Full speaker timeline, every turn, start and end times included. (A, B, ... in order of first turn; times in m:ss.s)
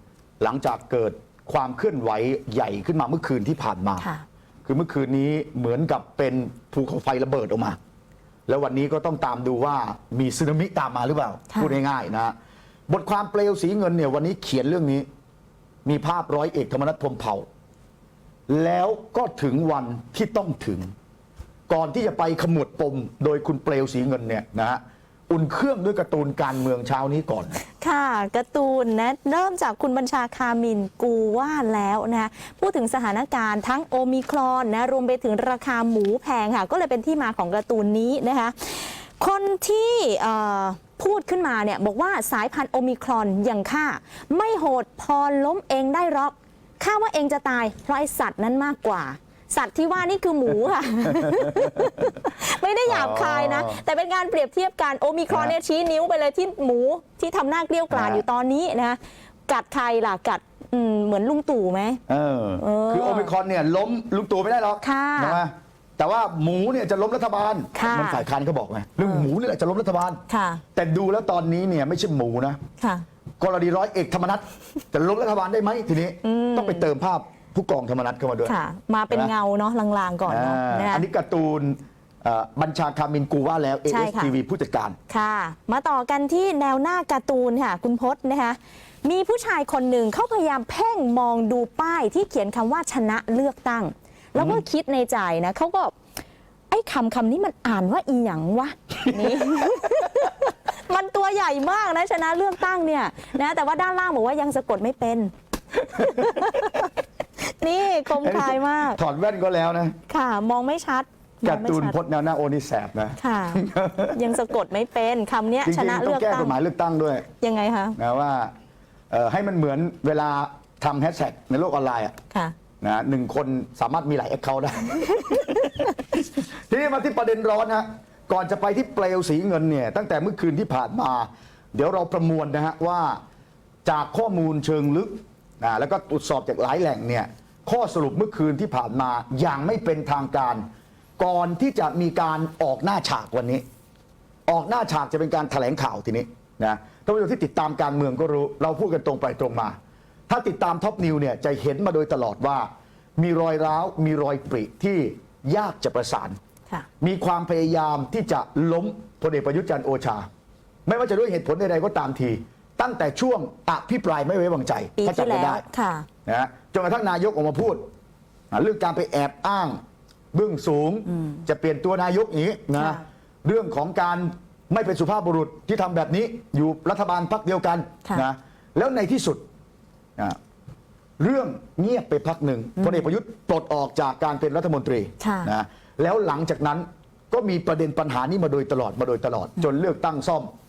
0:00.4-0:04.1 A
0:04.6-0:07.8 A
0:08.5-0:12.3 A
0:12.9-0:15.0 A
0:15.8-0:17.5 A
0:18.5-0:20.9 A
0:21.7-0:27.6 A
0:27.8-1:02.0 B
0:52.8-0:53.8 A
0:55.3-0:55.6 A
0:57.9-0:58.2 A
1:02.1-1:10.2 A
1:02.6-1:03.3 B
1:04.8-1:05.4 B
1:07.7-1:08.2 B
1:09.0-1:09.3 B
1:10.3-1:10.6 B
1:10.7-1:12.6 A
1:12.8-1:13.0 B
1:13.4-1:18.6 A
1:16.2-1:16.9 B
1:18.4-1:21.1 B
1:20.3-1:25.0 A
1:23.9-1:24.3 B
1:25.1-1:35.9 B
1:36.7-1:49.0 B
1:45.9-1:46.7 A
1:48.2-1:50.0 A
1:50.1-1:52.0 B
1:51.4-1:54.4 A
1:53.2-1:56.6 B
1:55.6-1:57.3 A
1:57.4-1:58.0 B
1:58.0-1:58.5 A
1:59.1-2:02.1 A
2:02.8-2:13.2 A
2:05.0-2:05.8 B
2:13.8-2:20.6 A
2:21.2-2:23.6 A
2:24.5-2:29.7 A
2:30.3-2:36.4 A
2:37.0-2:40.2 A
2:40.9-2:45.6 A
2:45.0-2:46.1 B
2:46.2-2:47.8 A
2:48.5-2:49.8 A
2:50.3-2:59.4 A
3:01.2-3:10.5 A
3:02.8-3:03.0 B
3:05.2-3:05.5 B